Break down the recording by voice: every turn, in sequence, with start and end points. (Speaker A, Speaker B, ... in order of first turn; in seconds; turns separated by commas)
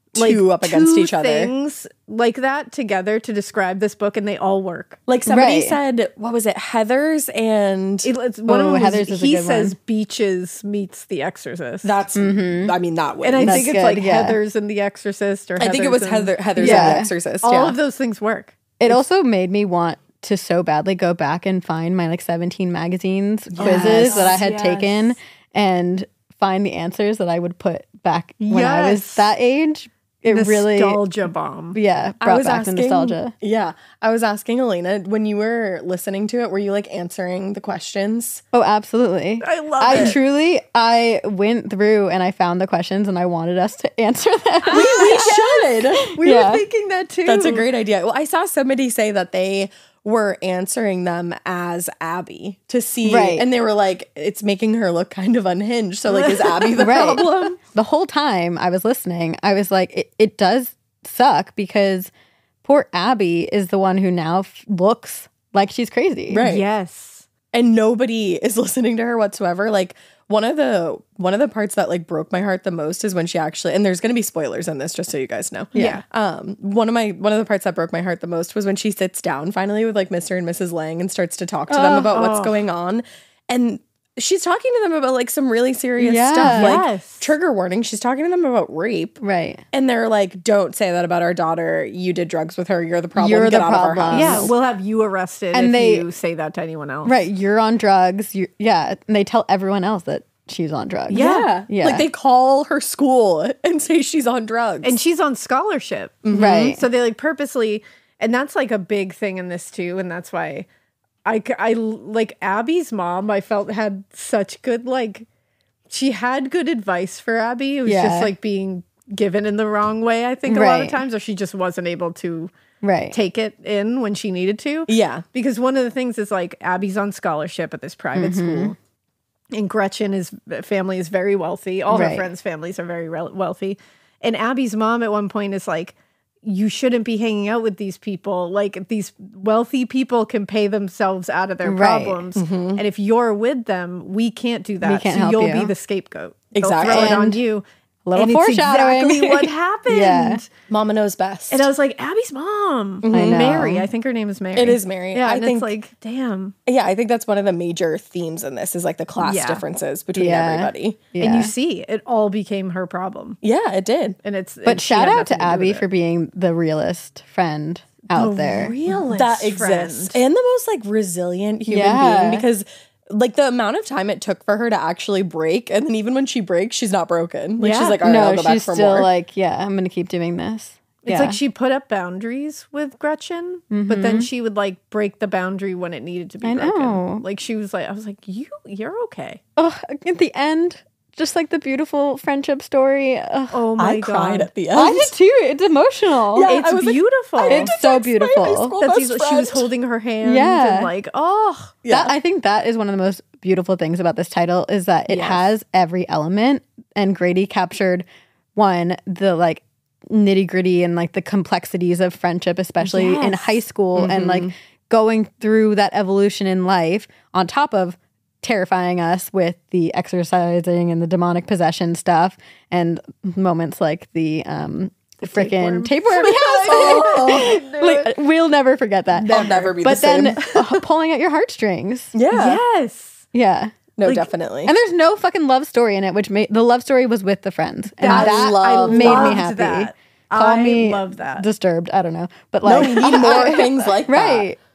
Speaker A: 0.1-1.5, Speaker B: 0.1-5.0, Speaker A: 5.1-8.1, Speaker C: 5.3-5.8, Speaker B: 8.0-12.0, Speaker C: 8.5-9.7, Speaker A: 11.8-13.7, Speaker C: 12.1-12.8, Speaker B: 13.2-19.0, Speaker C: 13.4-14.4, Speaker A: 15.6-17.8, Speaker C: 16.6-17.1, Speaker C: 18.8-31.0, Speaker A: 23.5-24.9, Speaker B: 23.6-24.9, Speaker B: 28.4-29.3, Speaker B: 30.3-31.8, Speaker C: 31.7-33.3, Speaker A: 32.2-38.4, Speaker C: 38.5-45.3, Speaker B: 39.4-40.2, Speaker B: 44.6-47.6, Speaker A: 44.7-46.1, Speaker C: 46.1-46.6, Speaker A: 47.2-57.5, Speaker C: 53.0-53.5, Speaker B: 56.1-57.6, Speaker C: 56.8-62.1, Speaker C: 62.6-66.4, Speaker A: 66.3-66.6, Speaker B: 66.4-67.3, Speaker A: 67.5-89.2, Speaker C: 75.7-76.0, Speaker B: 75.7-76.0, Speaker C: 81.7-82.1, Speaker B: 82.1-82.6, Speaker C: 86.0-86.8, Speaker B: 86.4-87.3, Speaker C: 89.2-89.6, Speaker A: 89.7-94.5, Speaker C: 93.1-94.5, Speaker B: 94.1-97.1, Speaker C: 95.5-96.0, Speaker C: 97.0-102.1, Speaker A: 101.1-105.0, Speaker B: 101.1-101.5, Speaker B: 104.8-110.7, Speaker A: 106.2-106.8, Speaker C: 106.3-106.8, Speaker B: 111.2-115.3, Speaker B: 115.9-122.5, Speaker C: 117.8-118.3, Speaker C: 120.5-121.0, Speaker C: 122.8-123.2, Speaker B: 123.1-128.8, Speaker A: 124.9-125.2, Speaker C: 128.1-128.7, Speaker B: 129.5-147.6, Speaker C: 131.9-132.3, Speaker C: 141.6-142.2, Speaker A: 142.3-142.8, Speaker C: 144.8-145.7, Speaker A: 146.5-147.2, Speaker C: 146.9-147.4, Speaker C: 148.1-150.4, Speaker B: 148.1-150.5, Speaker A: 150.7-151.7, Speaker B: 151.5-156.5, Speaker A: 153.0-153.6, Speaker C: 153.1-153.9, Speaker A: 154.5-155.7, Speaker A: 156.7-161.0, Speaker B: 159.2-159.6, Speaker C: 160.2-161.5, Speaker B: 161.2-163.4, Speaker A: 163.4-164.2, Speaker B: 164.2-165.8, Speaker C: 164.6-168.8, Speaker B: 168.1-170.2, Speaker A: 169.1-179.1, Speaker C: 171.7-172.4, Speaker B: 177.6-178.0, Speaker C: 178.0-181.4, Speaker B: 181.0-189.4, Speaker C: 183.7-184.3, Speaker C: 186.4-187.2, Speaker C: 189.6-193.6, Speaker B: 193.5-194.5, Speaker A: 193.8-195.1, Speaker C: 194.7-196.5, Speaker A: 196.3-199.7, Speaker B: 196.4-197.7, Speaker C: 197.5-198.7, Speaker B: 198.8-201.8, Speaker C: 200.2-200.9, Speaker A: 201.8-202.1, Speaker C: 201.9-208.0, Speaker B: 205.1-205.5, Speaker C: 208.6-232.2, Speaker B: 212.8-213.6, Speaker A: 213.9-214.5, Speaker B: 225.2-228.1, Speaker A: 226.2-227.7, Speaker B: 229.2-229.7, Speaker A: 229.2-230.4, Speaker A: 232.1-232.6, Speaker B: 232.3-233.2, Speaker C: 233.3-233.8, Speaker A: 234.0-234.7, Speaker C: 234.7-244.6, Speaker B: 238.0-241.4, Speaker A: 238.0-239.4, Speaker A: 242.6-244.5, Speaker B: 242.8-243.5